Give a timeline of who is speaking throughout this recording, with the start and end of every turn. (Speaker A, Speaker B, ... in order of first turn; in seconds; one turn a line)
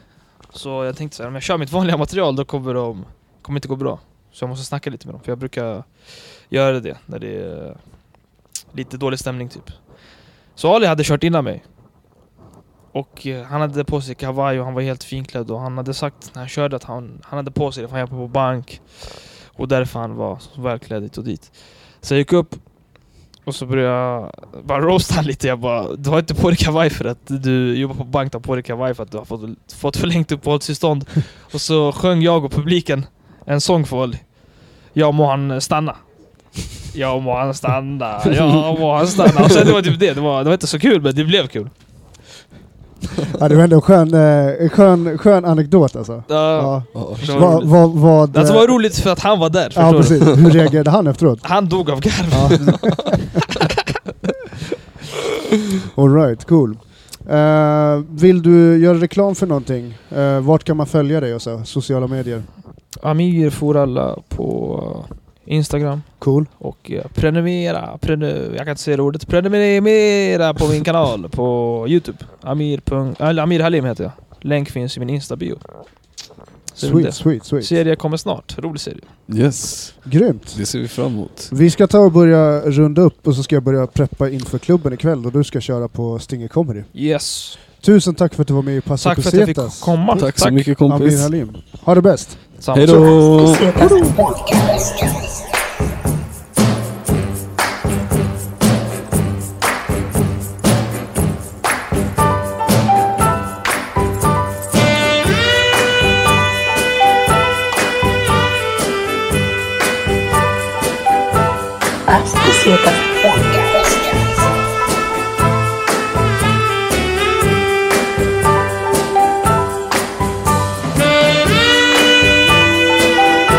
Speaker A: 0.5-7.8
Speaker A: 8.7-9.8
Speaker A: 10.5-11.6
Speaker A: 12.9-36.0
Speaker A: 36.9-41.7
Speaker B: 43.3-48.8
Speaker A: 46.3-50.8
Speaker C: 46.9-47.6
Speaker B: 49.7-51.5
Speaker A: 51.4-53.6
Speaker B: 52.3-53.3
Speaker B: 55.9-62.5
Speaker A: 63.0-75.6
Speaker B: 66.2-66.5
Speaker A: 76.7-79.1
Speaker B: 76.8-77.7
Speaker C: 79.3-81.5
Speaker B: 80.0-80.8
Speaker B: 81.5-86.9
Speaker A: 86.9-87.6
Speaker B: 87.8-89.9
Speaker A: 89.0-90.7
Speaker C: 90.1-91.3
Speaker B: 90.8-92.4
Speaker A: 92.6-93.2
Speaker C: 92.7-94.2
Speaker D: 92.9-95.5
Speaker D: 112.1-114.6